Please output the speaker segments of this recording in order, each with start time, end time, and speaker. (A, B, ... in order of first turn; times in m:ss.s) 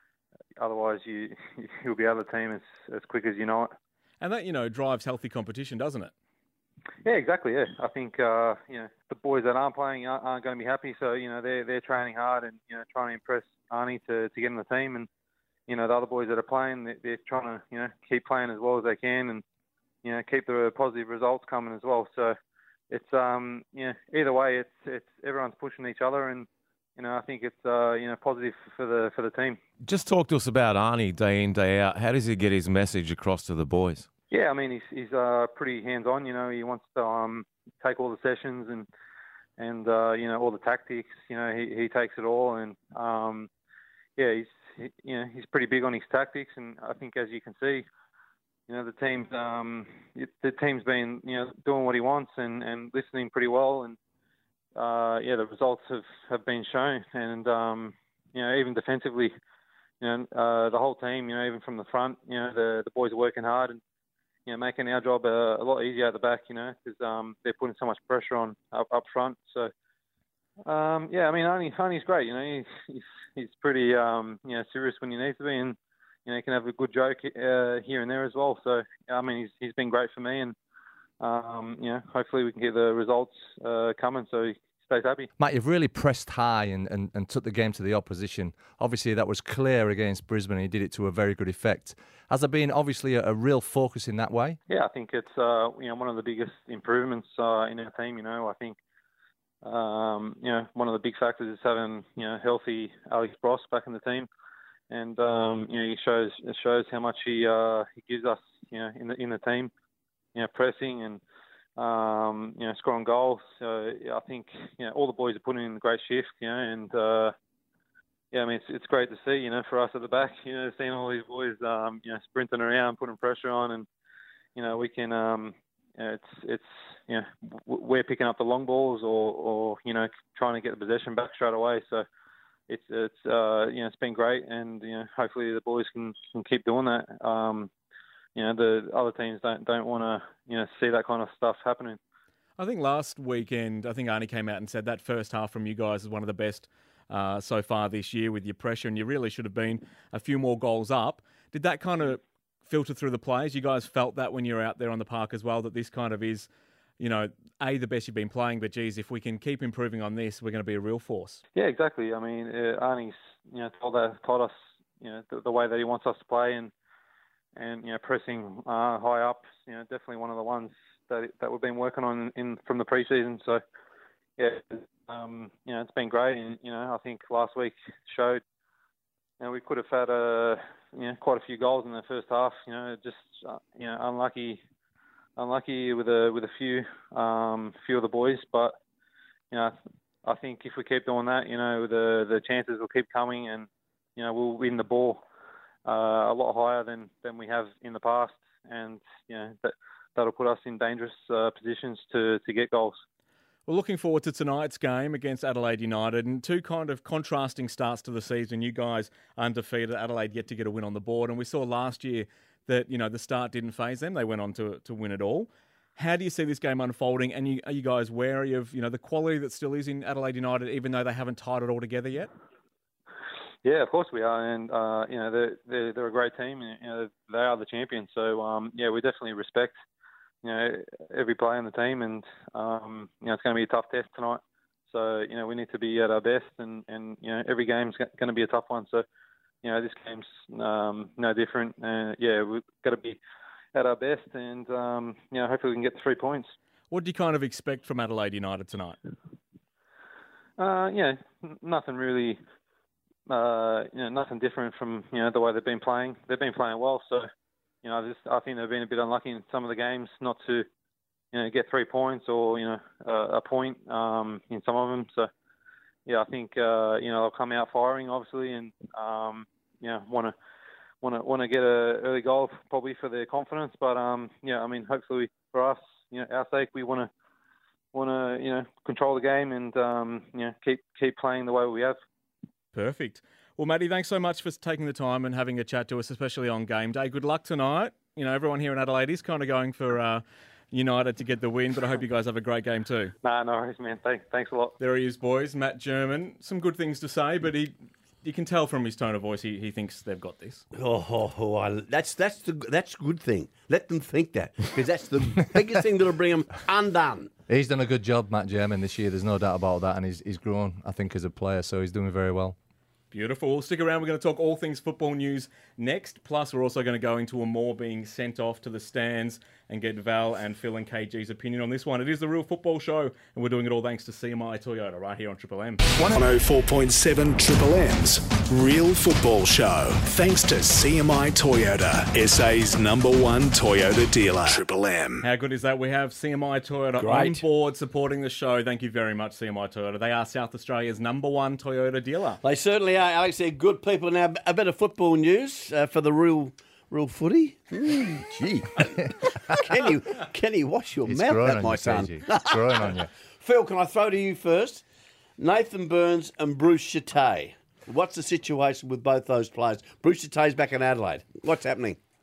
0:00.6-0:03.7 A
0:04.2-0:06.1 B
0:07.0-0:15.1 A
0:15.7-0:19.4 A
0:20.0-0:22.4 A
0:22.9-0:29.6 A
0:29.8-0:34.1 C
0:34.3-0:38.9 A
0:39.6-0:43.5 A
0:44.2-0:47.9 A
0:48.7-0:54.0 A
0:54.8-0:59.3 A
1:00.0-1:03.8 A
1:04.5-1:09.7 A
1:10.7-1:20.6 A
1:21.2-1:25.3 A
1:25.4-1:34.6 D
1:34.7-1:38.8 A
1:39.6-1:44.3 A
1:44.9-1:49.7 A
1:50.4-1:51.2 A
1:51.8-1:57.4 A
1:58.3-2:03.9 A
2:04.6-2:12.1 A
2:12.7-2:17.7 A
2:18.4-2:22.0 A
2:22.6-2:36.5 B
2:37.0-2:41.4 B
2:41.6-2:46.7 A
2:47.6-2:53.6 A
2:54.4-2:58.4 A
2:59.4-3:04.6 A
3:05.4-3:08.8 A
3:09.5-3:15.2 A
3:15.9-3:23.0 A
3:23.7-3:42.3 B
3:43.6-3:49.7 A
3:50.4-3:59.0 A
3:59.6-4:03.2 A
4:03.7-4:06.5 A
4:06.9-4:09.0 B
4:10.6-4:12.4 A
4:13.3-4:17.3 A
4:17.8-4:20.7 A
4:21.3-4:25.3 A
4:26.1-4:30.4 A
4:31.0-4:37.1 A
4:37.9-4:42.0 A
4:42.7-4:53.1 B
4:53.2-4:54.8 A
4:54.8-5:00.6 B
5:00.8-5:07.3 E
5:07.5-5:12.6 D
5:13.1-5:25.8 B
5:26.0-5:35.2 F
5:35.2-5:42.4 B
5:37.0-5:37.4 E
5:42.4-5:54.8 E
5:51.0-5:53.1 D
5:55.4-6:02.0 E